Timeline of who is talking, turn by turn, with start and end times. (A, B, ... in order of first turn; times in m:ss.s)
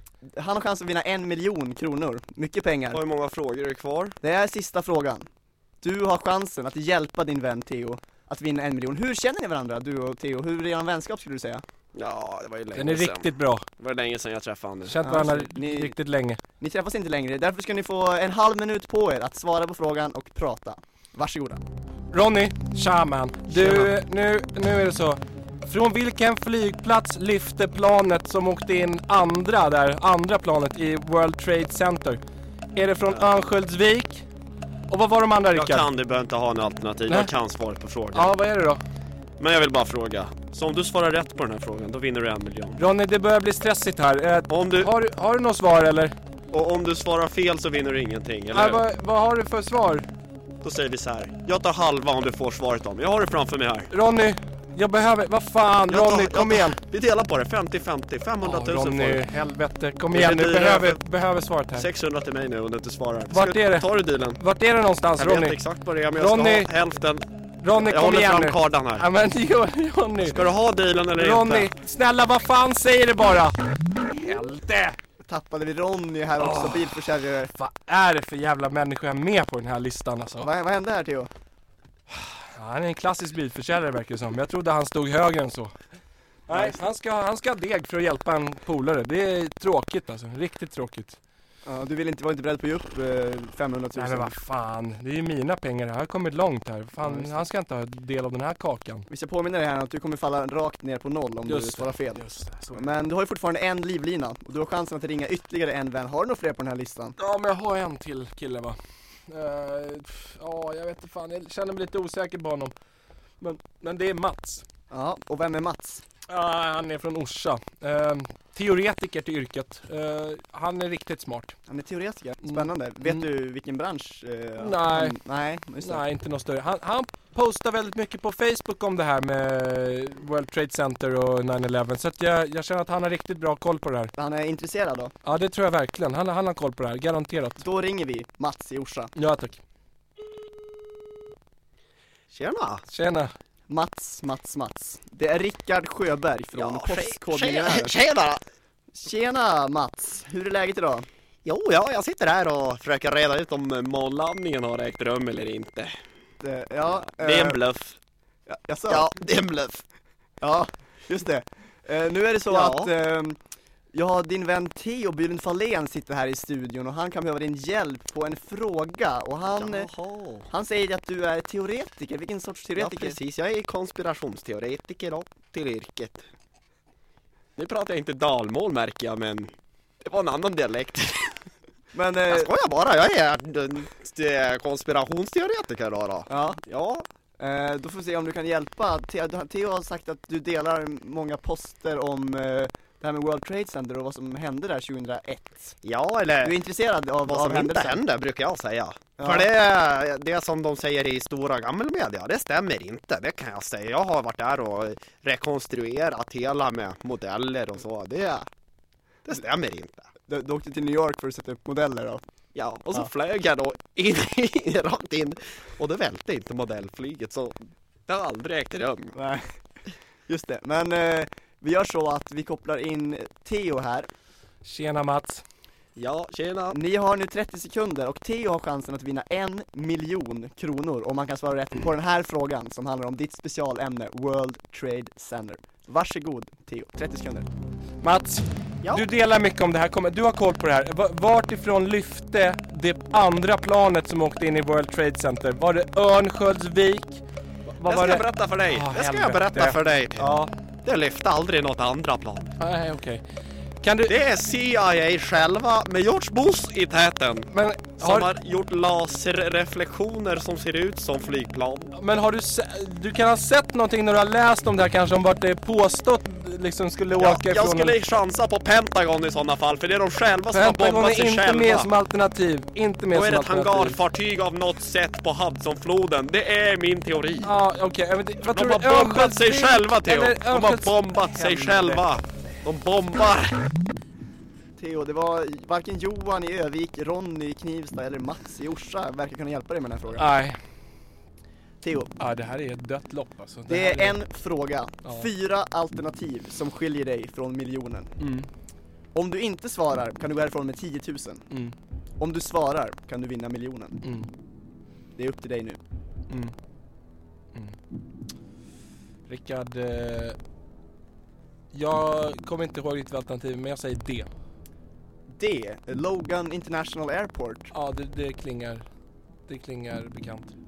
0:00.3-0:03.0 A
0:02.9-0:04.2 B
0:04.2-0:05.3 A
0:05.8-0:11.6 A
0:11.9-0:15.0 B
0:12.8-0:13.7 C
0:14.9-0:16.4 C
0:15.0-0:16.0 A
0:16.6-0:21.6 A
0:22.1-0:32.2 C
0:23.6-0:23.9 B
0:32.8-0:34.2 C
0:34.9-0:35.9 C
0:35.5-0:38.3 B
0:38.1-0:38.8 C
0:39.4-0:42.8 B
0:42.8-0:46.2 C
0:44.5-0:44.9 B
0:46.5-0:48.8 B
0:48.5-0:50.1 C
0:50.6-0:53.9 B
0:53.9-0:56.8 C
0:55.9-0:59.3 B
0:58.4-1:01.9 C
1:00.1-1:01.0 B
1:01.8-1:04.4 B
1:03.3-1:05.6 C
1:05.2-1:09.0 B
1:06.2-1:06.7 C
1:07.6-1:10.4 C
1:10.3-1:11.7 B
1:11.2-1:15.0 C
1:15.2-1:17.5 A
1:16.4-1:17.0 C
1:17.5-1:20.5 C
1:20.4-1:21.3 A
1:22.1-1:25.7 C
1:26.5-1:31.2 C
1:26.5-1:26.8 A
1:31.6-1:34.4 A
1:34.0-1:39.1 C
1:37.0-1:37.4 A
1:39.1-1:47.2 A
1:41.5-1:42.9 C
1:47.2-1:52.7 C
1:53.4-1:54.7 C
1:54.9-1:56.0 A
1:56.3-2:01.6 C
2:01.7-2:06.0 A
2:02.5-2:03.2 C
2:04.6-2:05.2 C
2:05.8-2:14.1 C
2:14.2-2:15.1 A
2:15.2-2:17.6 C
2:17.6-2:19.1 A
2:19.2-2:19.6 C
2:22.3-2:22.8 B
2:22.9-2:23.3 C
2:23.7-2:28.0 A
2:26.6-2:28.4 B
2:29.0-2:31.1 A
2:31.4-2:36.0 B
2:36.4-2:37.6 A
2:37.0-2:38.0 B
2:38.5-2:39.1 A
2:38.9-2:39.8 B
2:40.4-2:43.4 A
2:42.5-2:42.9 B
2:43.9-2:49.9 A
2:49.5-2:50.5 B
2:50.5-2:53.2 A
2:52.8-2:56.3 B
2:57.6-3:01.4 B
3:01.9-3:02.5 A
3:02.3-3:07.1 B
3:06.3-3:06.6 A
3:07.4-3:15.8 A
3:15.8-3:16.6 B
3:16.4-3:18.0 A
3:17.3-3:28.5 B
3:19.2-3:19.5 A
3:29.2-3:30.1 B
3:30.3-3:32.2 A
3:32.6-3:39.2 B
3:39.2-3:39.5 A
3:40.3-3:44.1 A
3:44.6-3:45.4 C
3:46.0-3:46.8 B
3:46.7-3:57.5 A
3:58.0-4:10.5 C
4:07.8-4:12.6 B
4:12.6-4:13.2 C
4:13.8-4:14.2 C
4:14.1-4:21.9 B
4:17.5-4:18.3 C
4:21.9-4:28.0 C
4:27.2-4:31.9 B
4:30.5-4:34.0 C
4:33.1-4:37.5 B
4:37.4-4:42.0 C
4:38.4-4:43.7 B
4:44.8-4:50.3 A
4:50.2-4:50.6 C
4:51.8-4:52.1 A
4:52.2-4:54.2 C
4:53.7-4:58.2 A
4:55.0-4:55.3 C
4:58.2-4:58.5 C
4:59.1-5:01.4 A
5:01.5-5:01.8 C
5:02.2-5:04.0 A
5:04.0-5:04.3 C
5:05.2-5:05.8 A
5:06.3-5:06.6 C
5:09.3-5:10.4 C
5:11.7-5:14.3 C
5:15.3-5:17.7 A
5:17.7-5:18.8 C
5:19.5-5:20.6 C